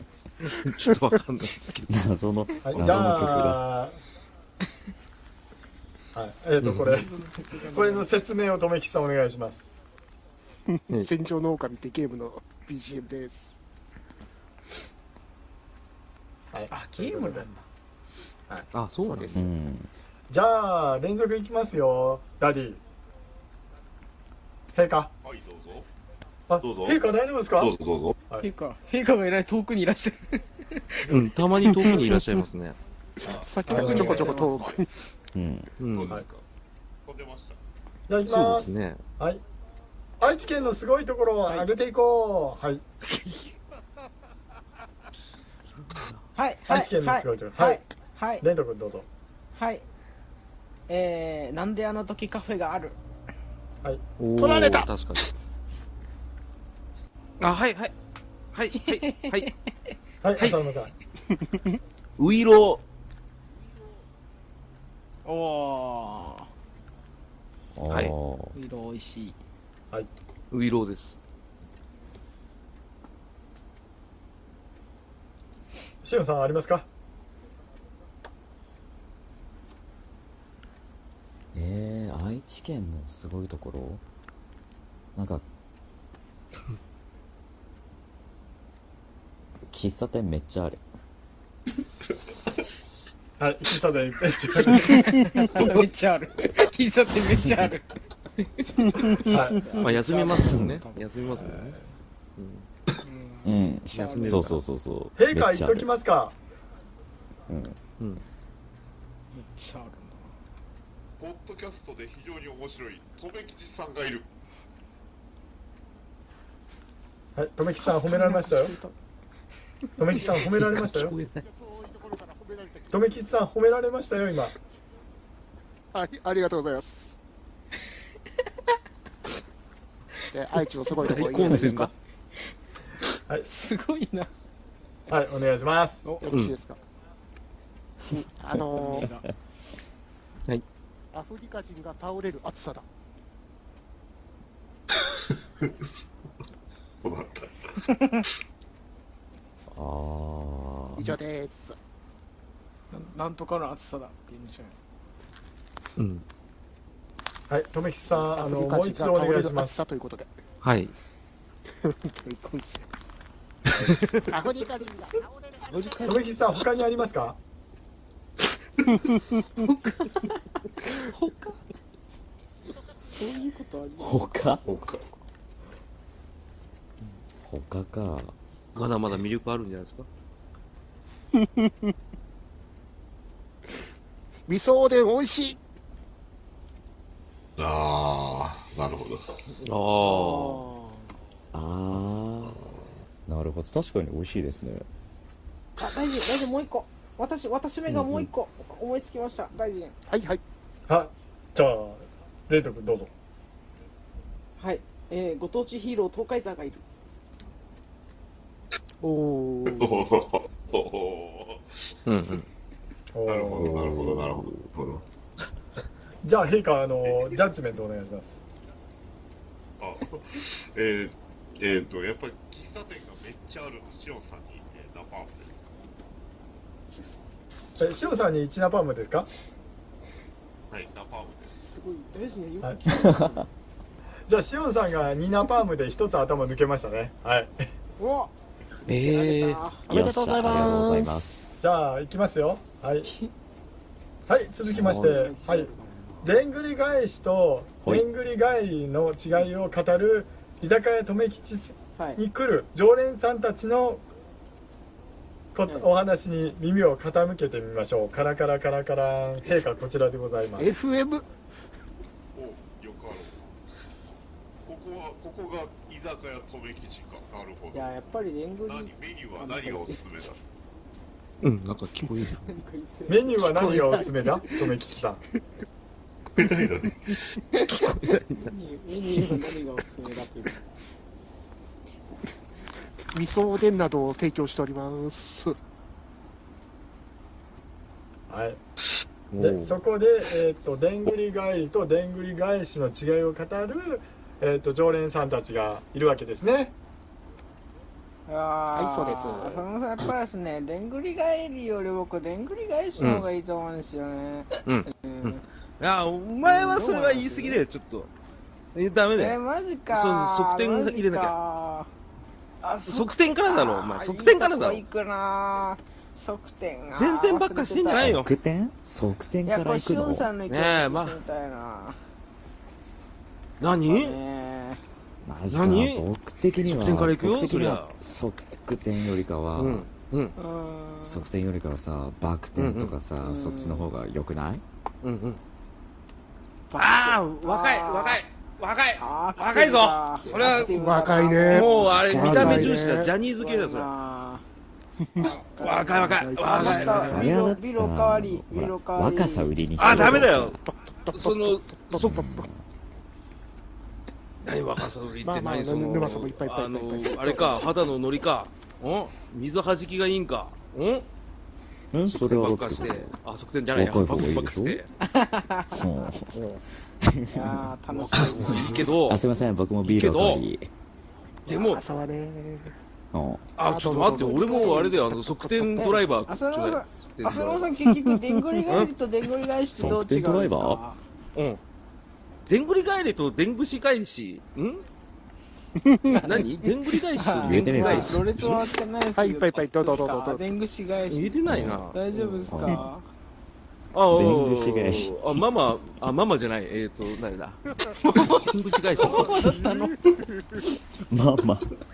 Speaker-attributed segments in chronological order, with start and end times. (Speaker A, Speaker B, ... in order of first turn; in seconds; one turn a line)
Speaker A: 0.5-2.0
Speaker B: 1.9-3.6
Speaker C: 2.6-4.0
Speaker C: 6.1-7.1
Speaker A: 6.6-7.0
Speaker D: 6.9-8.1
Speaker C: 7.6-9.6
Speaker E: 10.7-13.6
Speaker C: 16.5-17.5
Speaker D: 16.7-17.6
Speaker A: 18.7-19.4
Speaker E: 19.0-19.5
Speaker B: 19.4-19.9
Speaker C: 20.3-22.8
Speaker C: 24.7-25.1
Speaker F: 25.2-25.9
Speaker C: 26.5-27.8
Speaker F: 26.6-27.0
Speaker F: 27.6-28.2
Speaker D: 28.4-31.1
Speaker A: 31.1-32.8
Speaker E: 33.2-34.9
Speaker F: 33.2-34.9
Speaker C: 33.7-34.4
Speaker D: 33.8-34.3
Speaker B: 35.4-35.7
Speaker A: 35.8-36.1
Speaker F: 35.9-36.4
Speaker F: 37.1-37.6
Speaker C: 38.1-39.4
Speaker A: 38.2-39.0
Speaker C: 40.2-42.8
Speaker D: 46.4-48.4
Speaker C: 46.7-47.8
Speaker C: 48.4-49.1
Speaker D: 49.5-49.8
Speaker D: 50.9-53.0
Speaker A: 54.2-55.3
Speaker E: 54.4-54.9
Speaker A: 57.4-57.9
Speaker A: 58.5-59.5
Speaker D: 58.8-59.5
Speaker C: 60.2-60.9
Speaker A: 62.2-62.8
Speaker D: 65.2-66.5
Speaker B: 67.8-68.6
Speaker A: 67.9-68.1
Speaker D: 68.5-69.4
Speaker A: 70.5-71.2
Speaker C: 76.0-76.9
Speaker B: 81.5-84.0
Speaker B: 85.2-85.4
Speaker B: 89.7-90.8
Speaker C: 93.4-95.7
Speaker D: 95.0-97.9
Speaker C: 99.2-100.0
Speaker D: 99.3-101.0
Speaker A: 99.8-101.8
Speaker B: 100.4-100.8
Speaker C: 101.4-101.8
Speaker A: 102.4-102.7
Speaker D: 103.0-104.5
Speaker B: 103.4-105.9
Speaker A: 103.9-104.6
Speaker C: 105.2-106.4
Speaker B: 107.5-107.8
Speaker D: 109.3-110.3
Speaker F: 111.2-114.3
Speaker C: 117.4-118.8
Speaker D: 117.8-119.0
Speaker C: 120.0-121.2
Speaker A: 120.6-121.5
Speaker E: 121.3-123.2
Speaker C: 122.9-124.5
Speaker E: 125.9-127.2
Speaker E: 130.3-131.9
Speaker A: 131.0-131.9
Speaker D: 133.4-134.3
Speaker C: 135.1-136.0
Speaker D: 136.1-136.3
Speaker E: 136.2-136.8
Speaker E: 138.4-139.1
Speaker D: 138.5-139.2
Speaker E: 141.1-142.8
Speaker F: 145.0-145.9
Speaker F: 147.0-148.0
Speaker D: 147.9-148.2
Speaker B: 149.7-151.1
Speaker E: 150.9-151.8
Speaker D: 152.9-154.8
Speaker A: 156.0-156.2
Speaker C: 157.5-159.8
Speaker E: 158.1-160.3
Speaker A: 160.6-160.9
Speaker E: 161.8-162.9
Speaker E: 164.1-166.3
Speaker A: 165.7-166.2
Speaker C: 166.1-167.4
Speaker D: 169.6-171.6
Speaker D: 173.0-174.8
Speaker B: 174.0-174.6
Speaker F: 174.7-175.0
Speaker B: 177.4-178.3
Speaker A: 178.7-180.1
Speaker E: 181.4-181.7
Speaker E: 184.5-185.6
Speaker F: 187.6-189.4
Speaker A: 189.6-190.7
Speaker D: 190.1-190.4
Speaker E: 190.1-190.9
Speaker B: 191.5-192.6
Speaker B: 193.3-194.9
Speaker D: 195.8-199.9
Speaker A: 197.9-198.3
Speaker E: 200.1-200.4
Speaker C: 200.9-203.1
Speaker D: 204.6-206.8
Speaker E: 209.0-210.1
Speaker F: 209.7-211.9
Speaker A: 212.1-212.4
Speaker C: 213.1-213.9
Speaker F: 213.3-215.1
Speaker B: 213.9-214.4
Speaker C: 216.2-218.4
Speaker F: 219.8-225.6
Speaker C: 227.8-229.3
Speaker F: 230.7-231.6
Speaker D: 231.6-233.5
Speaker B: 232.9-233.3
Speaker C: 234.3-237.7
Speaker D: 238.0-238.3
Speaker A: 238.9-239.6
Speaker D: 238.9-239.9
Speaker E: 239.9-241.6
Speaker B: 239.9-241.5
Speaker C: 241.6-243.1
Speaker D: 243.1-243.3
Speaker C: 244.3-245.7
Speaker E: 244.7-245.6
Speaker D: 244.8-246.2
Speaker C: 246.2-254.1
Speaker C: 255.5-260.7
Speaker E: 260.6-261.2
Speaker F: 262.4-263.6
Speaker F: 264.6-267.9
Speaker D: 267.7-270.3
Speaker F: 268.6-270.4
Speaker A: 271.4-272.6
Speaker D: 272.5-274.1
Speaker C: 273.1-275.2
Speaker E: 273.6-273.9
Speaker F: 276.4-277.2
Speaker D: 277.5-280.6
Speaker A: 277.9-278.5
Speaker E: 283.1-285.6
Speaker C: 288.3-288.6
Speaker A: 289.3-289.7
Speaker C: 289.4-296.7
Speaker D: 298.3-305.4
Speaker E: 298.7-299.6
Speaker A: 303.0-303.2
Speaker A: 304.6-308.1
Speaker D: 306.4-307.6
Speaker A: 308.7-309.4
Speaker D: 309.1-311.9
Speaker A: 309.9-311.4
Speaker D: 312.6-318.2
Speaker A: 312.9-314.8
Speaker A: 316.9-318.3
Speaker B: 317.9-320.3
Speaker D: 319.4-322.0
Speaker A: 320.5-321.2
Speaker A: 323.6-324.2
Speaker D: 323.9-324.8
Speaker B: 325.2-329.9
Speaker A: 325.5-326.0
Speaker A: 326.6-327.9
Speaker A: 329.6-330.4
Speaker D: 330.4-331.2
Speaker B: 331.0-334.6
Speaker A: 332.6-332.9
Speaker D: 333.2-333.9
Speaker A: 335.0-335.4
Speaker D: 336.7-338.2
Speaker A: 336.8-340.7
Speaker D: 339.0-342.7
Speaker E: 340.3-343.1
Speaker A: 341.5-343.9
Speaker B: 341.9-342.7
Speaker D: 343.4-344.4
Speaker E: 345.0-345.4
Speaker D: 345.2-349.6
Speaker A: 345.2-347.2
Speaker E: 345.9-347.3
Speaker B: 347.1-350.6
Speaker A: 349.8-350.6
Speaker E: 350.6-352.4
Speaker A: 351.1-352.1
Speaker B: 351.9-352.6
Speaker A: 354.4-361.1
Speaker E: 355.2-357.8
Speaker B: 361.9-363.1
Speaker A: 362.1-364.9
Speaker B: 363.7-364.8
Speaker D: 365.0-366.1
Speaker B: 365.7-366.3
Speaker B: 367.0-367.7
Speaker D: 367.3-368.9
Speaker A: 367.9-369.2
Speaker B: 368.2-370.7
Speaker A: 369.8-370.5
Speaker A: 371.4-371.8
Speaker E: 371.5-372.8
Speaker B: 373.1-373.4
Speaker A: 373.6-377.7
Speaker E: 373.6-375.6
Speaker D: 374.4-374.9
Speaker D: 375.8-381.0
Speaker E: 378.1-378.7
Speaker B: 379.7-380.8
Speaker A: 382.5-384.8
Speaker E: 385.8-386.2
Speaker D: 386.1-391.4
Speaker A: 386.2-388.3
Speaker B: 387.4-388.5
Speaker E: 389.1-390.4
Speaker A: 391.1-392.4
Speaker B: 391.5-391.9
Speaker D: 391.9-393.1
Speaker B: 392.5-392.9
Speaker A: 393.9-397.6
Speaker B: 394.1-395.4
Speaker D: 398.0-400.0
Speaker A: 398.3-399.6
Speaker E: 398.9-400.6
Speaker B: 401.1-401.7